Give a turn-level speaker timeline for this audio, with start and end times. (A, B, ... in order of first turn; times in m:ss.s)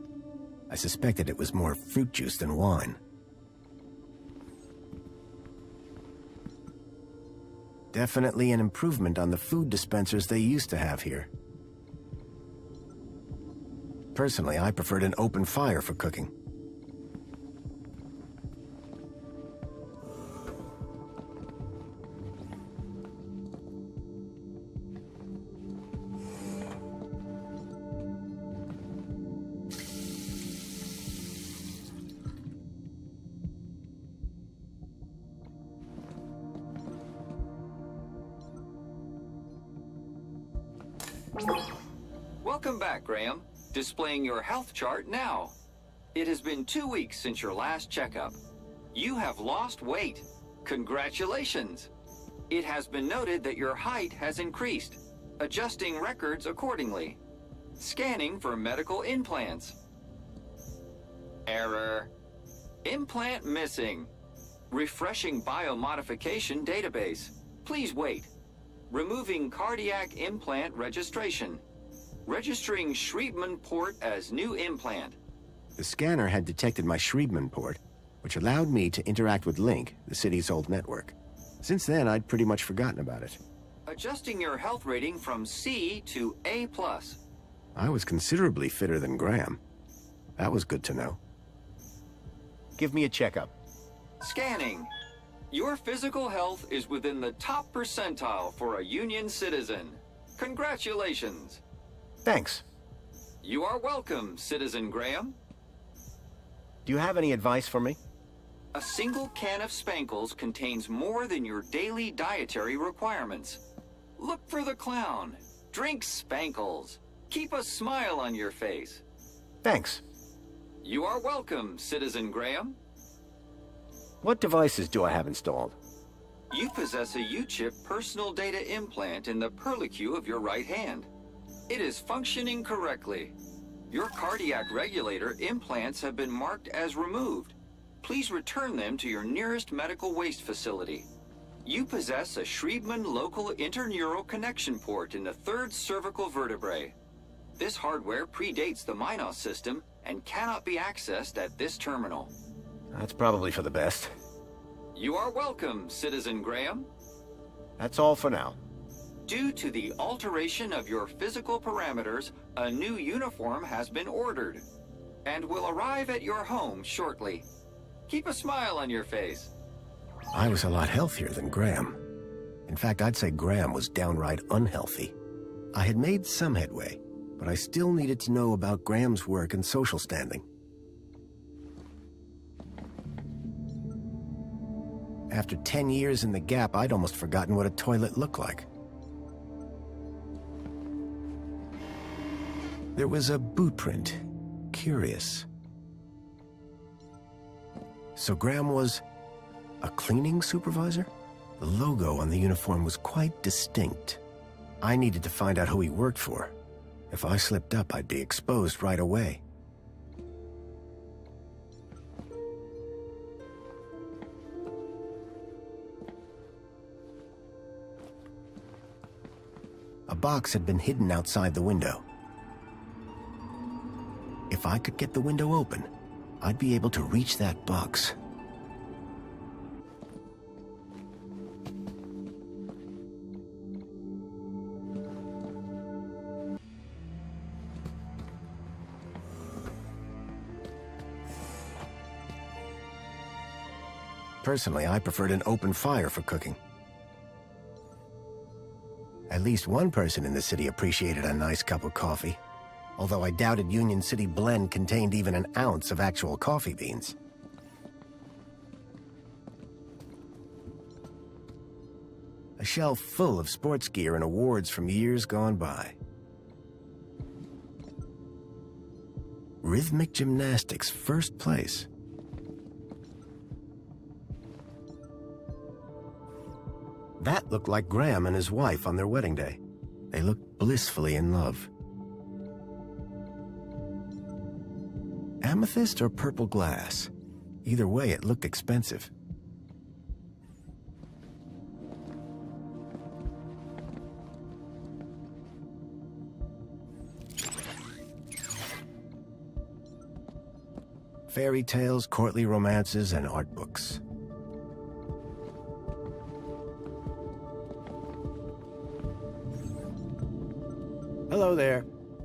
0:00.7-0:03.0 A
0:07.9-0:11.3 A
0:14.1-0:16.3 A
0:42.4-0:45.5 B
0:46.1-0:48.4 B
0:48.9-0:51.9 B
0:52.5-0:57.2 B
0:57.8-0:59.8 B
1:01.5-1:02.1 B
1:02.8-1:04.1 B
1:04.7-1:08.3 B
1:08.9-1:11.6 B
1:12.3-1:15.2 B
1:15.8-1:23.4 A
1:23.9-1:27.2 B
1:27.8-1:29.6 A
1:30.4-1:31.2 A
1:32.8-1:33.5 A
1:34.2-1:34.9 B
1:35.5-1:41.6 B
1:42.2-1:42.6 A
1:43.4-1:45.4 B
1:46.8-1:48.0 A
1:48.7-1:53.6 B
1:54.2-1:59.0 B
1:59.6-2:00.0 A
2:00.8-2:02.8 B
2:04.2-2:05.8 A
2:06.5-2:11.1 B
2:11.7-2:13.4 B
2:13.9-2:21.1 B
2:21.6-2:27.0 B
2:27.6-2:32.3 B
2:32.9-2:34.1 A
2:35.0-2:36.9 B
2:37.8-2:38.6 A
2:39.3-2:44.6 B
2:45.2-2:47.4 B
2:48.1-2:49.5 B
2:50.3-2:52.0 A
2:52.7-2:55.2 A
2:55.7-3:00.5 A
3:05.3-3:08.7 A
3:13.0-3:15.5 A
3:18.2-3:19.0 A
3:19.8-3:24.2 A
3:24.8-3:26.6 A
3:27.1-3:29.4 A
3:40.1-3:42.0 A
3:44.5-3:45.9 A
3:46.4-3:48.2 A
4:04.4-4:06.6 A
4:09.3-4:12.4 A
4:13.0-4:17.2 A
4:22.6-4:26.0 A
4:29.6-4:31.9 A
4:37.2-4:39.6 A
4:40.1-4:41.7 A
4:45.4-4:47.1 A
4:47.6-4:49.1 A
5:01.3-5:04.0 A
5:11.3-5:11.9 A